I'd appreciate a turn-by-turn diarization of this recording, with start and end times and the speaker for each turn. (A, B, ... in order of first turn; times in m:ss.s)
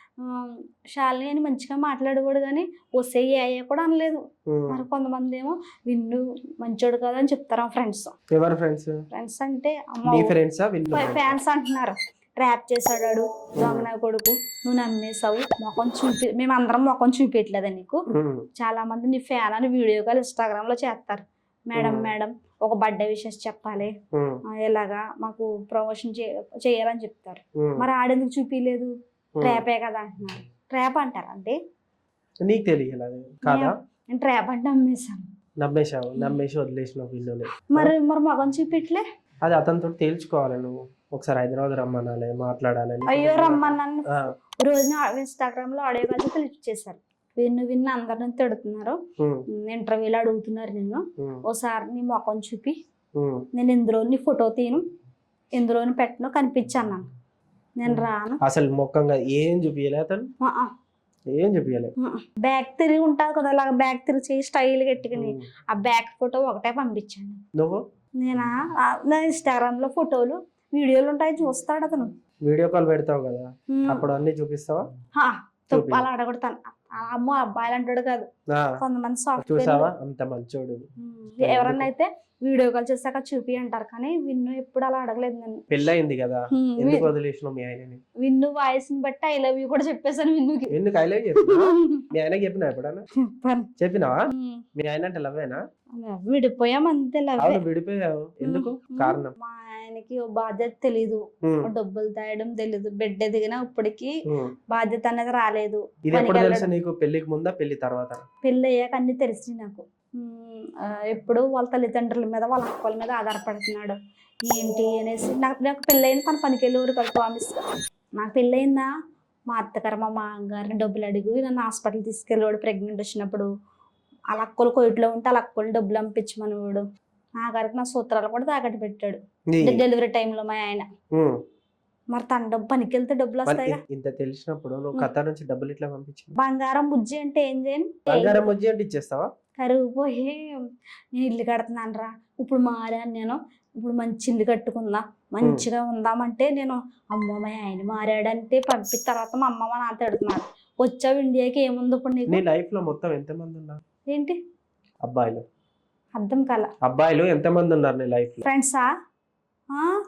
0:00.2-0:08.1 A
0:04.5-0:04.8 B
0:08.3-0:09.0 B
0:09.1-0:10.3 A
0:10.1-0:11.3 B
0:10.9-0:18.0 A
0:13.6-0:13.9 B
0:18.1-0:18.4 B
0:18.6-0:23.9 A
0:21.7-0:22.1 B
0:24.1-0:24.4 B
0:24.5-0:31.6 A
0:27.6-0:27.8 B
0:29.4-0:29.6 B
0:32.4-0:33.7 B
0:33.4-0:35.2 A
0:35.6-0:37.9 B
0:37.6-0:39.0 A
0:39.4-0:44.3 B
0:43.1-0:49.0 A
0:49.2-0:49.4 B
0:49.6-0:52.8 A
0:53.2-0:53.4 B
0:53.5-0:54.8 A
0:55.6-0:57.0 A
0:57.8-0:58.4 A
0:57.9-1:00.3 B
1:00.4-1:00.7 A
1:01.3-1:01.9 B
1:02.0-1:07.4 A
1:05.1-1:05.5 B
1:07.5-1:07.8 B
1:08.2-1:12.1 A
1:12.4-1:14.8 B
1:13.7-1:14.1 A
1:15.1-1:18.3 A
1:15.7-1:16.1 B
1:18.8-1:19.9 A
1:19.4-1:20.8 B
1:21.0-1:25.6 A
1:21.4-1:21.9 B
1:25.7-1:28.0 B
1:26.5-1:27.1 A
1:28.2-1:30.8 A
1:30.7-1:33.0 B
1:31.4-1:32.0 A
1:33.2-1:33.7 A
1:33.8-1:35.6 B
1:34.3-1:34.6 A
1:36.0-1:37.6 A
1:37.4-1:39.4 B
1:38.4-1:44.1 A
1:41.4-1:41.7 B
1:44.3-1:44.5 B
1:44.7-1:46.7 A
1:46.1-1:48.2 B
1:48.4-1:57.6 A
1:58.2-1:58.9 A
1:59.5-2:03.5 A
2:04.3-2:06.8 A
2:07.4-2:10.9 A
2:09.5-2:09.8 B
2:11.1-2:11.4 B
2:12.1-2:13.8 A
2:13.4-2:16.4 B
2:16.4-2:18.5 A
2:18.1-2:19.3 B
2:19.6-2:20.4 A
2:21.1-2:32.4 A
2:25.4-2:25.7 B
2:32.3-2:33.8 B
2:34.1-2:34.4 A
2:35.0-2:35.4 B
2:36.2-2:36.7 A
2:36.8-2:38.5 B
2:38.4-2:38.9 A